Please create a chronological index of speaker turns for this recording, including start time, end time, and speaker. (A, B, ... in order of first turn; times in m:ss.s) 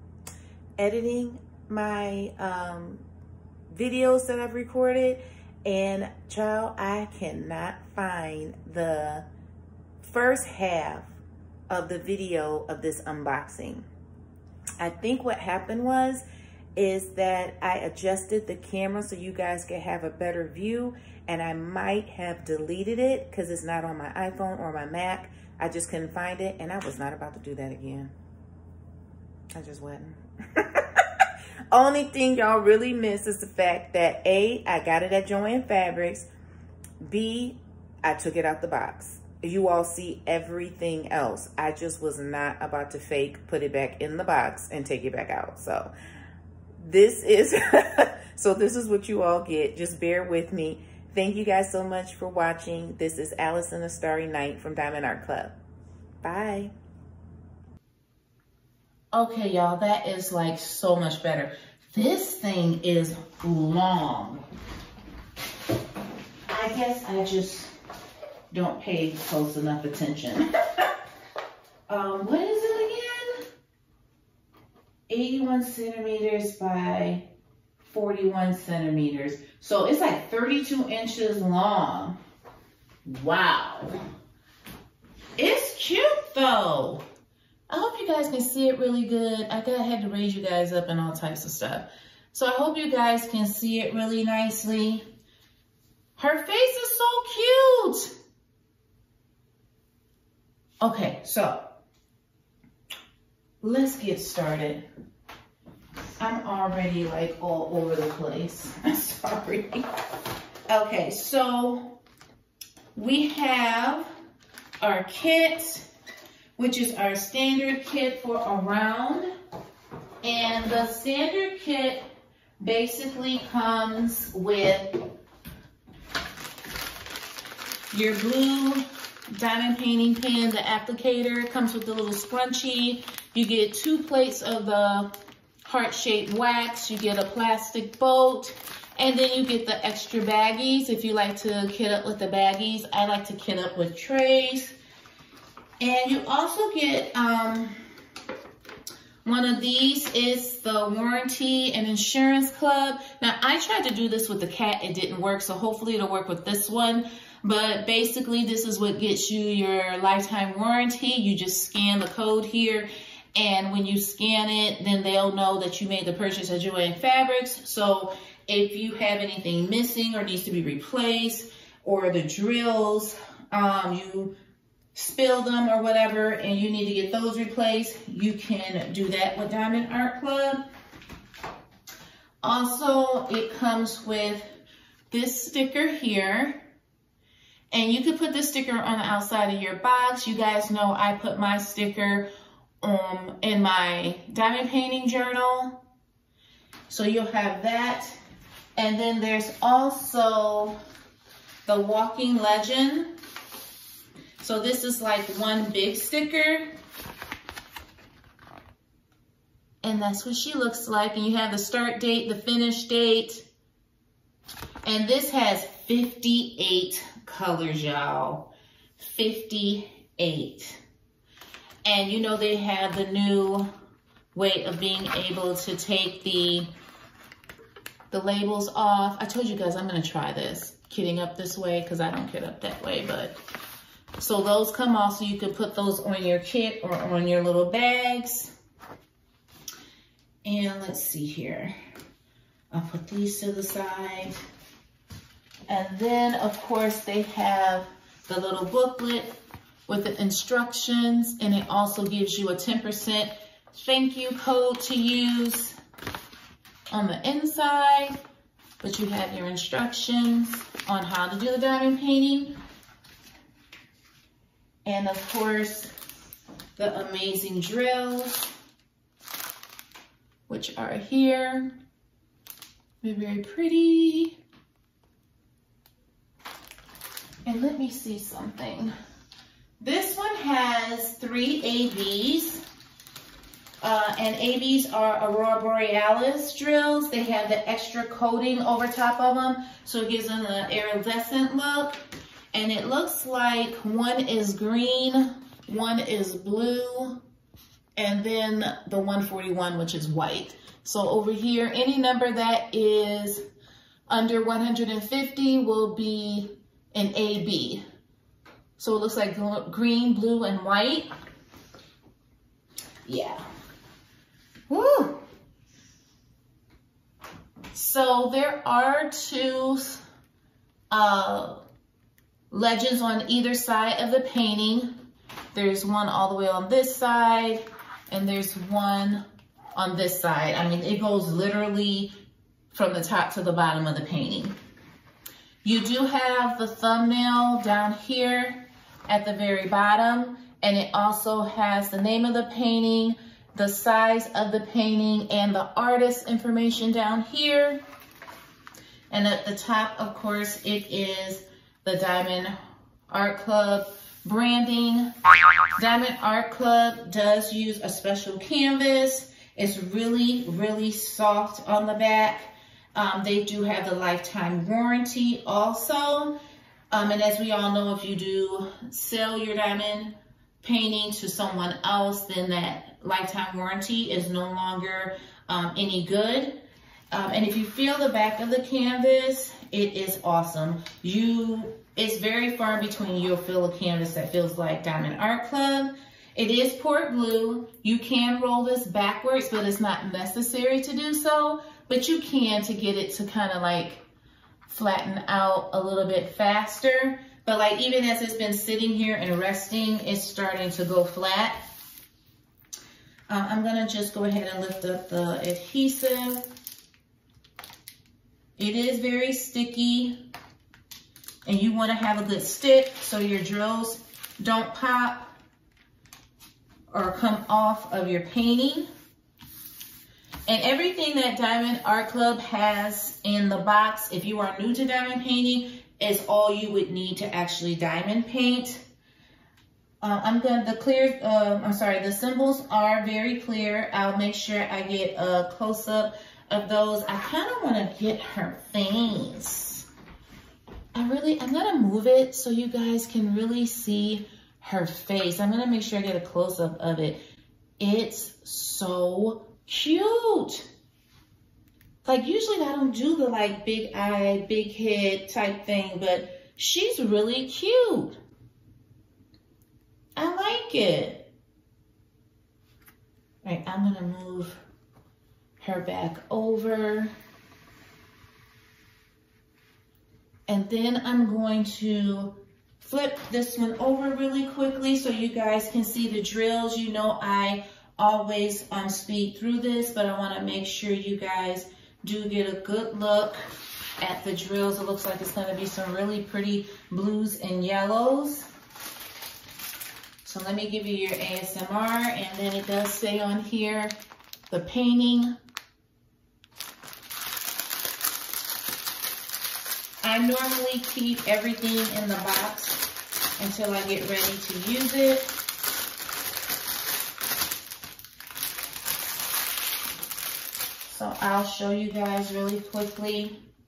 0:00.8-0:03.0 A
0:03.7-0:09.2 A
0:10.0-0:11.2 A
0:11.7-0:13.8 A
0:14.8-0:16.2 A
0:16.8-0:28.1 A
0:29.5-0:36.3 A
0:37.0-0:45.9 A
0:46.8-0:55.5 A
0:56.2-0:56.7 A
0:59.1-1:04.4 A
1:06.5-1:07.7 A
1:08.5-1:10.8 A
1:11.9-1:13.4 A
1:15.1-1:17.2 A
1:17.8-1:22.2 A
1:23.0-1:24.0 A
1:25.4-1:27.0 A
1:27.7-1:35.0 A
1:36.2-1:38.1 A
1:40.8-1:41.6 A
1:43.6-1:44.8 A
1:46.2-1:49.8 A
1:50.7-1:52.0 A
1:52.9-1:54.1 A
1:54.8-1:55.9 A
1:56.6-1:59.3 A
2:00.2-2:02.0 A
2:02.6-2:05.0 A
2:07.9-2:15.1 A
2:15.6-2:24.8 A
2:25.8-2:27.7 A
2:29.2-2:54.3 A
2:54.9-3:00.6 A
3:02.4-3:04.4 A
3:05.1-3:06.6 A
3:07.7-3:12.3 A
3:12.8-3:15.8 A
3:16.9-3:18.2 A
3:18.8-3:20.8 A
3:21.6-3:23.1 A
3:24.4-3:26.7 A
3:29.8-3:33.4 A
3:34.8-3:40.8 A
3:41.8-3:43.7 A
3:44.3-3:46.7 A
3:48.1-3:53.4 A
3:54.2-3:58.5 A
4:00.4-4:01.7 A
4:02.7-4:04.4 A
4:05.7-4:09.4 A
4:09.9-4:15.7 A
4:16.9-4:18.2 A
4:18.8-4:22.5 A
4:24.8-4:25.9 A
4:26.8-4:28.5 A
4:30.5-4:31.8 A
4:33.0-4:34.3 A
4:37.4-4:38.9 A
4:39.8-4:42.6 A
4:43.8-4:52.0 A
4:52.5-4:57.2 A
4:58.0-5:03.4 A
5:04.1-5:07.8 A
5:08.8-5:11.1 A
5:13.0-5:13.4 A
5:14.7-5:15.2 A
5:17.7-5:20.0 A
5:20.9-5:21.6 A
5:22.5-5:24.9 A
5:25.5-5:29.2 A
5:29.7-5:32.1 A
5:32.7-5:34.5 A
5:35.6-5:47.8 A
5:49.1-5:52.5 A
5:53.1-5:55.1 A
5:55.8-6:06.4 A
6:06.9-6:16.6 A
6:17.1-6:34.0 A
6:34.7-6:41.6 A
6:43.3-6:46.4 A
6:48.6-6:50.2 A
6:51.4-6:55.3 A
6:56.9-6:58.9 A
7:00.5-7:08.8 A
7:10.0-7:19.9 A
7:20.9-7:27.2 A
7:27.8-7:30.7 A
7:32.0-7:38.2 A
7:40.2-7:41.3 A
7:43.4-7:44.6 A
7:45.6-7:47.1 A
7:50.5-8:03.4 A
8:04.0-8:08.5 A
8:10.2-8:14.0 A
8:14.5-8:15.3 A
8:20.0-8:22.8 A
8:23.4-8:25.3 A
8:30.8-8:33.4 A